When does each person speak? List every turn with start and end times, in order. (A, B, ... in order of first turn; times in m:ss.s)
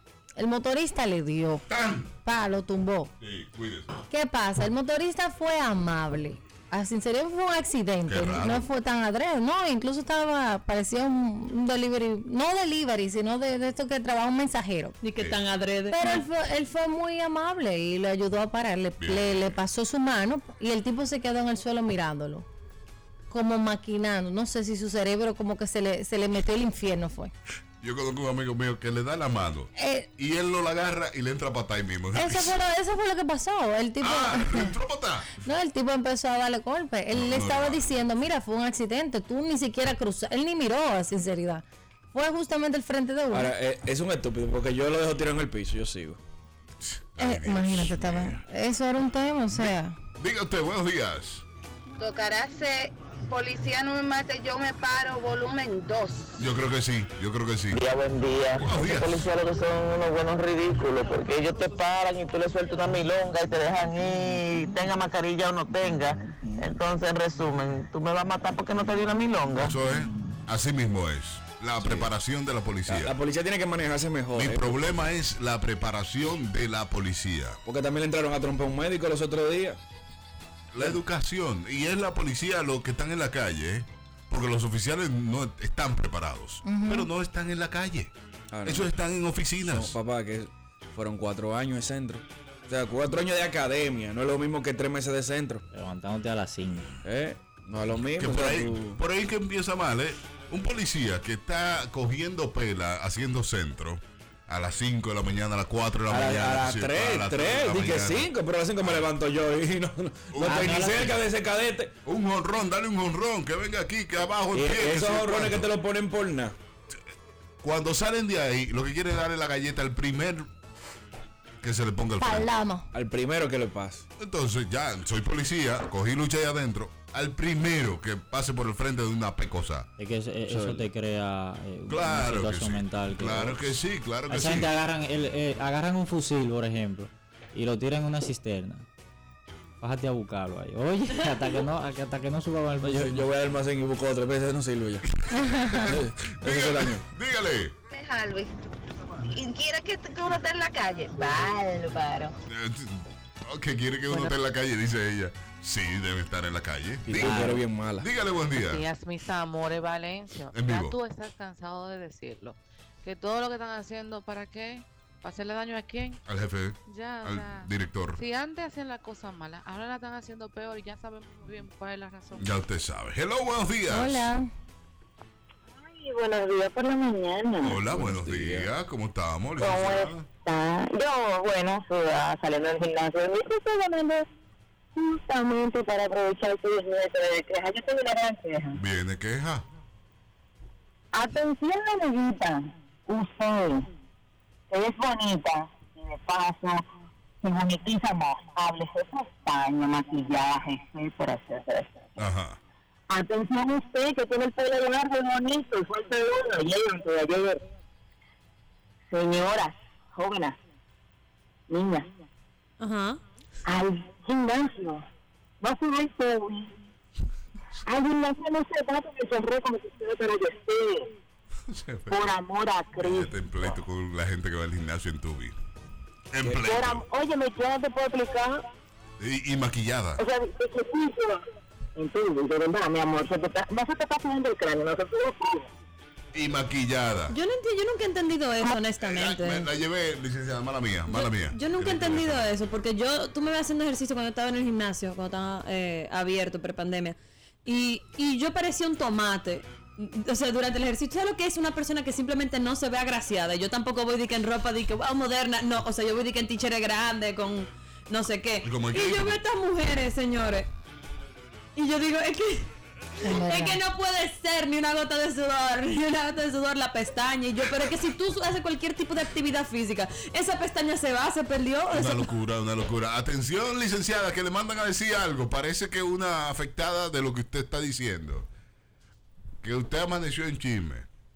0:00.4-0:01.6 A
0:01.7-0:02.1 B
0:02.2-0:03.1 A
0:03.2-0:03.9 B
0:04.1-0:14.9 A
0:08.0-0:08.7 B
0:15.0-0:16.2 C
0:15.2-0:15.4 B
0:15.9-0:22.4 A
0:19.0-0:19.5 B
0:23.3-0:27.3 A
0:27.8-0:32.6 B
0:29.8-0:30.1 A
0:32.1-0:34.7 A
0:34.0-0:35.4 B
0:35.4-0:43.5 A
0:37.1-0:38.0 B
0:43.3-0:46.2 D
0:46.8-0:48.4 B
0:47.2-0:49.9 A
0:49.5-0:51.4 B
0:52.0-0:56.3 E
0:56.4-0:57.8 B
0:57.7-1:09.8 F
0:58.5-0:59.3 B
1:09.6-1:13.1 B
1:11.8-1:12.1 D
1:12.9-1:14.9 D
1:14.3-1:17.6 B
1:17.6-1:19.8 D
1:20.7-1:28.1 B
1:26.6-1:27.1 A
1:28.5-1:28.9 D
1:28.6-1:30.0 B
1:29.6-1:35.6 D
1:35.7-1:37.0 G
1:37.0-1:39.0 D
1:38.2-1:48.3 B
1:46.1-1:51.9 D
1:50.3-1:51.2 B
1:50.4-1:51.2 G
1:52.0-1:55.7 B
1:54.5-1:56.5 D
1:57.6-2:00.5 B
2:01.6-2:02.5 B
2:02.2-2:02.9 A
2:02.9-2:04.0 D
2:04.2-2:09.9 B
2:10.0-2:13.7 G
2:10.5-2:10.9 D
2:11.9-2:14.7 B
2:14.2-2:18.9 G
2:19.8-2:23.3 G
2:22.8-2:25.0 D
2:25.3-2:27.7 B
2:25.4-2:25.9 A
2:25.8-2:27.0 D
2:27.9-2:28.5 E
2:29.2-2:31.5 E
2:31.3-2:32.3 H
2:32.5-2:38.8 B
2:37.1-2:38.1 D
2:37.2-2:37.6 G
2:38.7-2:46.2 I
2:40.5-2:41.0 B
2:46.2-2:48.2 B
2:46.9-2:52.5 I
2:52.4-2:54.3 B
2:53.9-2:54.5 A
2:55.8-2:57.8 H
2:57.6-3:00.2 B
2:57.9-2:58.7 D
2:59.6-2:59.9 F
2:59.7-3:04.2 H
3:02.2-3:02.7 F
3:04.9-3:08.8 H
3:08.7-3:09.6 B
3:11.1-3:13.8 H
3:14.7-3:16.8 H
3:17.4-3:22.0 H
3:22.2-3:22.6 B
3:23.1-3:27.6 H
3:29.1-3:30.6 H
3:31.7-3:32.0 H
3:32.8-3:33.2 C
3:33.6-3:35.0 H
3:35.6-3:36.7 H
3:37.8-3:41.0 H
3:41.7-3:42.3 B
3:42.1-3:43.3 H
3:43.0-3:45.6 B
3:46.3-3:47.0 B
3:46.6-3:48.6 H
3:49.2-3:50.2 B
3:50.2-3:51.4 H
3:52.0-3:55.6 H
3:56.3-3:57.4 B
3:57.3-3:59.7 C
3:59.0-4:02.5 B
4:01.1-4:20.7 C
4:18.6-4:19.4 B
4:21.8-4:22.7 C
4:23.2-4:23.8 A
4:23.2-4:32.3 C
4:31.9-4:38.5 B
4:39.6-4:41.1 B